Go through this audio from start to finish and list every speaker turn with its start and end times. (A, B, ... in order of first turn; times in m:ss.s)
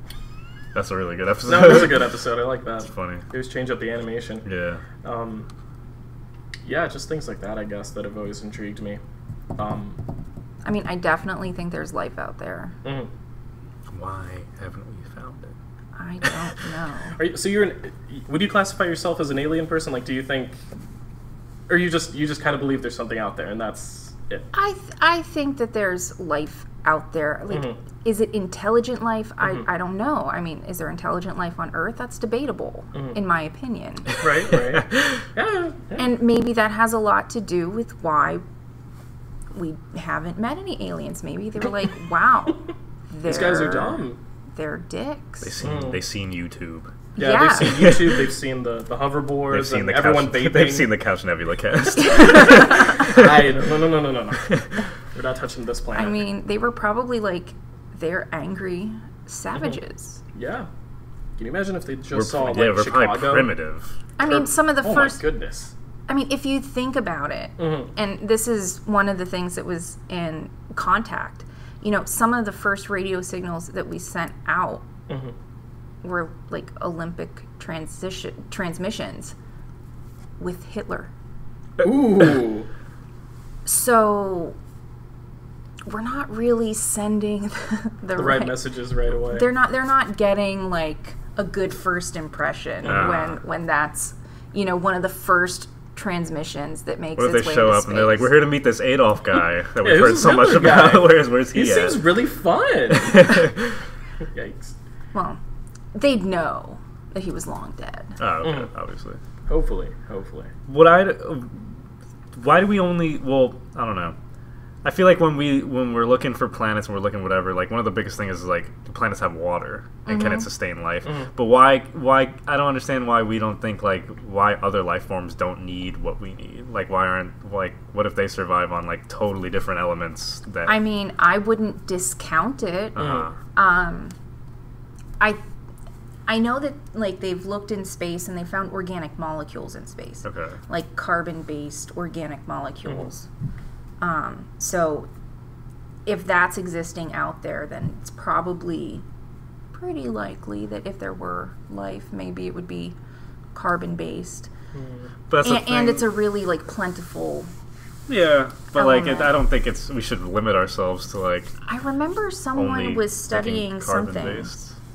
0:00.7-0:02.1 A
0:01.4-0:04.4 B
0:02.9-0:03.3 A
0:04.4-0:04.8 A
0:05.0-0:05.5 B
0:06.6-0:09.0 B
0:09.6-0:10.0 B
0:10.6-0:12.8 C
0:12.8-0:13.1 B
0:13.9-0:15.5 A
0:16.0-0:17.2 C
0:17.2-0:20.6 B
0:21.7-0:24.5 B
0:24.5-0:34.1 C
0:27.5-0:27.8 B
0:34.2-0:36.0 B
0:34.5-0:35.2 A
0:36.0-0:38.4 C
0:39.5-0:44.0 C
0:43.2-0:44.2 B
0:44.6-0:45.5 C
0:45.4-0:46.9 A
0:45.6-0:46.0 B
0:47.2-0:47.9 C
0:47.2-0:50.9 B
0:47.6-0:48.2 A
0:49.5-0:53.6 A
0:52.1-0:56.3 B
0:52.2-0:52.6 C
0:54.4-0:54.7 A
0:55.9-1:00.2 C
1:00.3-1:00.7 B
1:01.4-1:03.5 B
1:02.1-1:04.0 A
1:04.2-1:05.2 C
1:04.2-1:05.7 B
1:06.1-1:14.8 C
1:07.6-1:07.9 B
1:15.1-1:15.3 B
1:16.0-1:19.3 C
1:20.4-1:21.1 C
1:21.8-1:22.6 B
1:23.6-1:24.6 C
1:25.8-1:28.6 C
1:28.2-1:29.5 B
1:29.3-1:38.4 C
1:32.8-1:33.2 B
1:32.8-1:33.4 A
1:37.2-1:42.0 A
1:39.8-1:43.4 B
1:42.9-1:43.8 A
1:44.3-1:44.7 B
1:45.1-1:45.4 C
1:45.9-1:48.2 C
1:48.2-1:49.2 A
1:48.4-1:48.7 B
1:49.5-1:50.5 B
1:50.7-1:51.6 A
1:52.3-1:54.2 A
1:54.8-2:10.8 A
2:00.0-2:00.5 C
2:01.0-2:01.3 B
2:10.6-2:14.1 C
2:12.9-2:13.4 A
2:13.0-2:13.2 B
2:16.3-2:23.3 C
2:20.2-2:20.6 A
2:24.0-2:25.1 C
2:26.0-2:29.0 C
2:29.7-2:33.0 C
2:33.5-2:34.5 C
2:34.7-2:35.1 B
2:35.3-2:36.0 A
2:35.4-2:37.5 C
2:38.1-2:41.6 A
2:38.7-2:39.4 C
2:41.6-2:44.5 C
2:42.5-2:44.7 A